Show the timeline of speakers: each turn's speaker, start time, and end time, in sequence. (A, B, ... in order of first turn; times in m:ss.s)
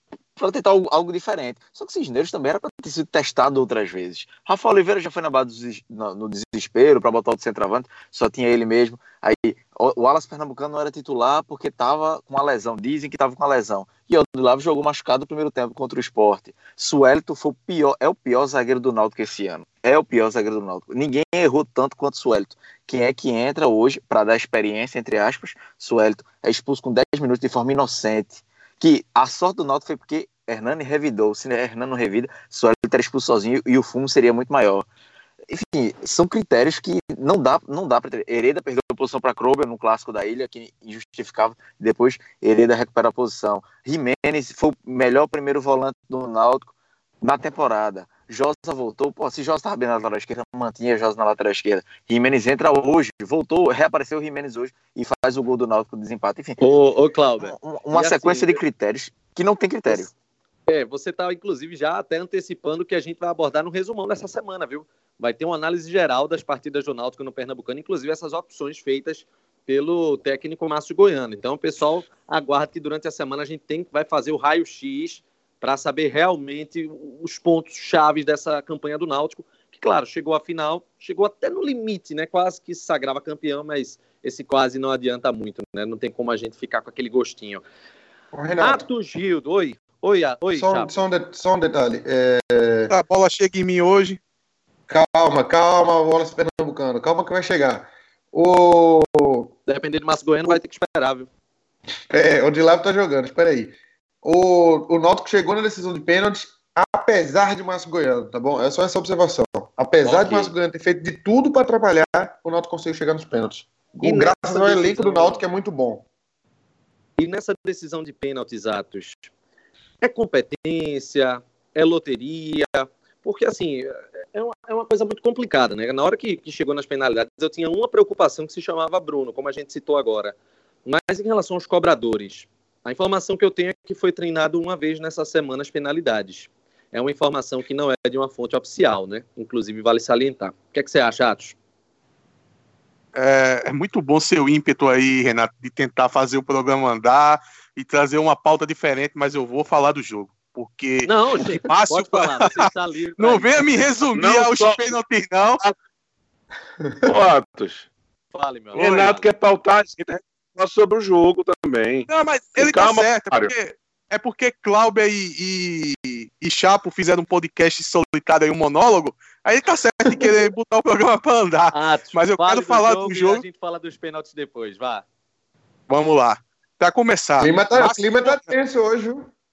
0:00.4-0:34.9 A
0:35.5-0:56.6 A
0:56.6-0:58.6 B
0:57.4-1:00.1 A
1:00.7-1:27.6 B
1:28.3-1:28.8 C
1:28.6-1:30.9 B
1:30.5-1:32.9 C
1:32.9-1:34.2 D
1:34.9-1:39.5 C
1:39.7-1:41.3 B
1:42.1-1:56.1 C
1:50.0-1:50.5 B
1:54.0-1:55.4 B
1:57.2-1:59.3 B
2:00.0-2:21.6 B
2:23.2-2:35.6 D
2:31.0-2:33.8 B
2:34.1-2:35.0 E
2:37.1-2:37.9 E
2:38.3-2:39.3 B
2:38.7-2:43.5 E
2:42.1-2:53.4 D
2:50.1-2:50.5 C
2:51.7-2:55.0 B
2:55.9-2:58.5 D
2:57.4-2:59.3 C